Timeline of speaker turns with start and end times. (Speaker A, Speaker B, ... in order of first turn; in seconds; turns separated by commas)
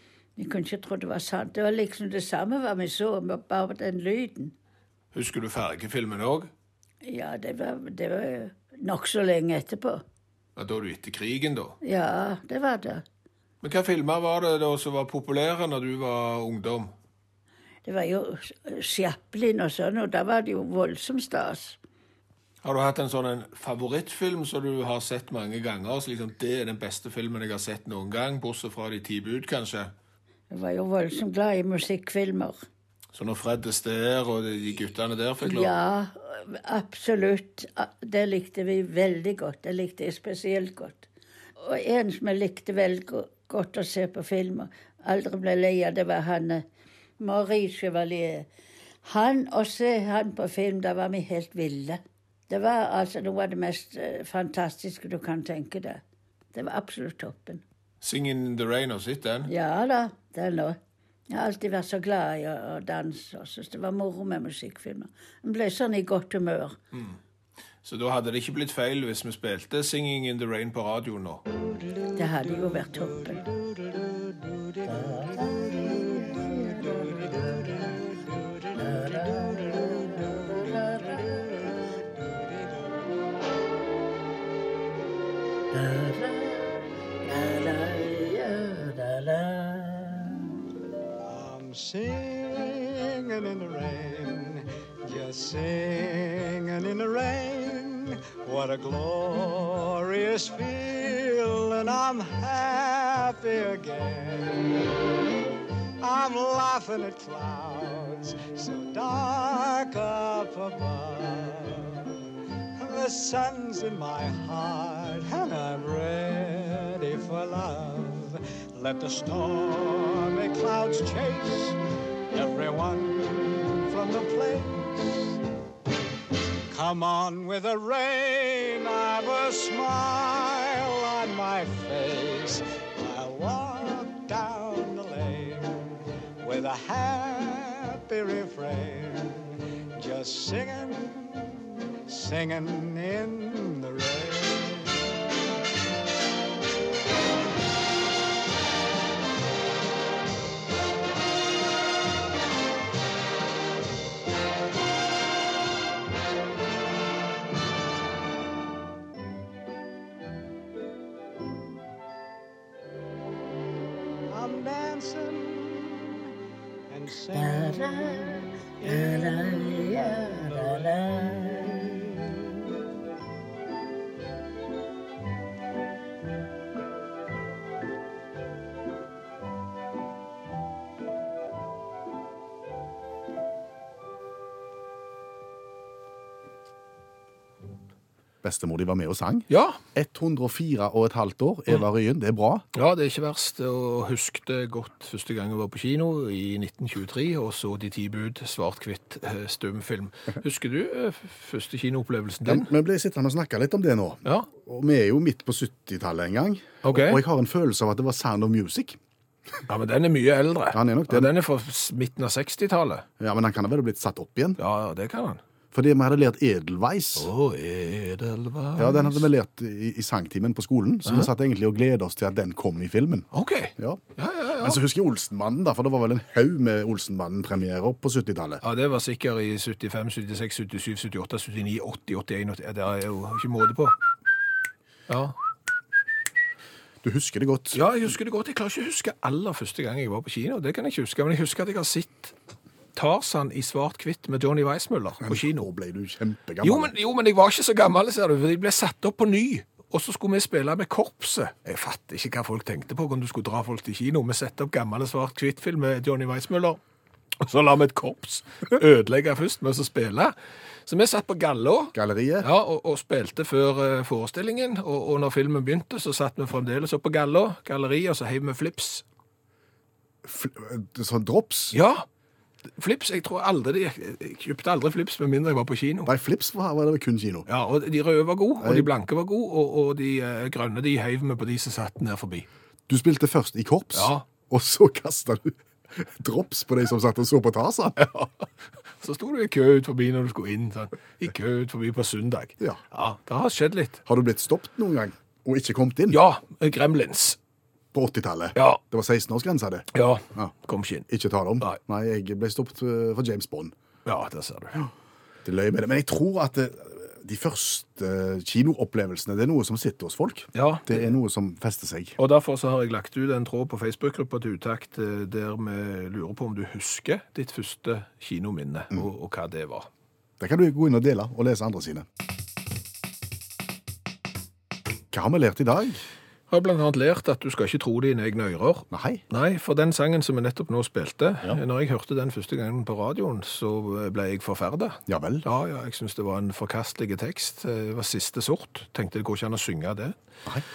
Speaker A: 0.4-4.5, Speaker B: 5.1-6.5, Speaker A: 7.0-10.0, Speaker B: 10.6-11.8, Speaker A: 11.8-13.0, Speaker B: 13.6-16.9, Speaker A: 17.9-21.8, Speaker B: 22.6-29.9, Speaker A: 30.5-32.6, Speaker B: 33.1-35.7, Speaker A: 35.4-41.1, Speaker A: 41.6-46.6, Speaker A: 47.2-48.5, Speaker A: 49.1-56.0, Speaker A: 56.5-57.6, Speaker B: 58.0-59.5, Speaker A: 59.5-60.8, Speaker A: 61.3-66.8, Speaker B: 66.9-67.2, Speaker B: 67.8-71.4, Speaker A: 72.2-73.4, Speaker A: 74.9-78.0, Speaker A: 78.7-81.5, Speaker A: 85.7-90.4, Speaker C: 91.3-94.5, Speaker C: 95.1-104.4, Speaker C: 106.0-111.2, Speaker C: 112.8-121.7, Speaker C: 122.3-125.2, Speaker C: 126.7-135.7, Speaker C: 136.4-139.1, Speaker C: 140.0-141.2, Speaker C: 142.1-144.8, Speaker C: 164.3-165.8, Speaker C: 166.9-168.2, Speaker A: 167.3-172.0, Speaker C: 168.8-171.9, Speaker D: 188.4-192.6, Speaker B: 189.5-189.8, Speaker B: 192.7-202.7, Speaker D: 202.4-209.0, Speaker B: 206.8-207.2, Speaker B: 209.7-213.1, Speaker D: 210.7-211.3, Speaker D: 213.2-214.6, Speaker B: 214.6-215.4, Speaker D: 215.7-217.3, Speaker B: 217.2-219.3, Speaker D: 218.8-224.0, Speaker B: 223.3-224.8, Speaker D: 224.6-228.6, Speaker B: 228.6-234.0, Speaker B: 235.1-235.3, Speaker D: 237.0-237.8, Speaker B: 237.7-242.3, Speaker B: 242.9-245.7, Speaker D: 245.2-246.9, Speaker B: 246.6-256.8, Speaker B: 257.4-260.4, Speaker B: 260.9-269.0, Speaker D: 261.9-262.5, Speaker D: 270.2-271.8, Speaker B: 271.7-272.1, Speaker B: 272.8-276.1, Speaker D: 276.1-277.5, Speaker B: 277.5-282.5, Speaker D: 278.6-278.9, Speaker D: 282.9-288.0, Speaker B: 283.9-284.2, Speaker B: 288.0-288.4, Speaker B: 289.0-294.0, Speaker D: 294.1-296.2, Speaker B: 296.1-297.4, Speaker D: 297.9-300.5, Speaker B: 298.6-298.8, Speaker B: 299.9-301.1, Speaker D: 301.1-303.7, Speaker B: 304.1-304.8, Speaker D: 305.4-312.1, Speaker B: 310.6-311.1, Speaker B: 312.2-319.9, Speaker D: 320.4-322.1, Speaker D: 325.1-326.0, Speaker B: 326.5-340.1, Speaker D: 328.9-329.2, Speaker D: 335.1-335.4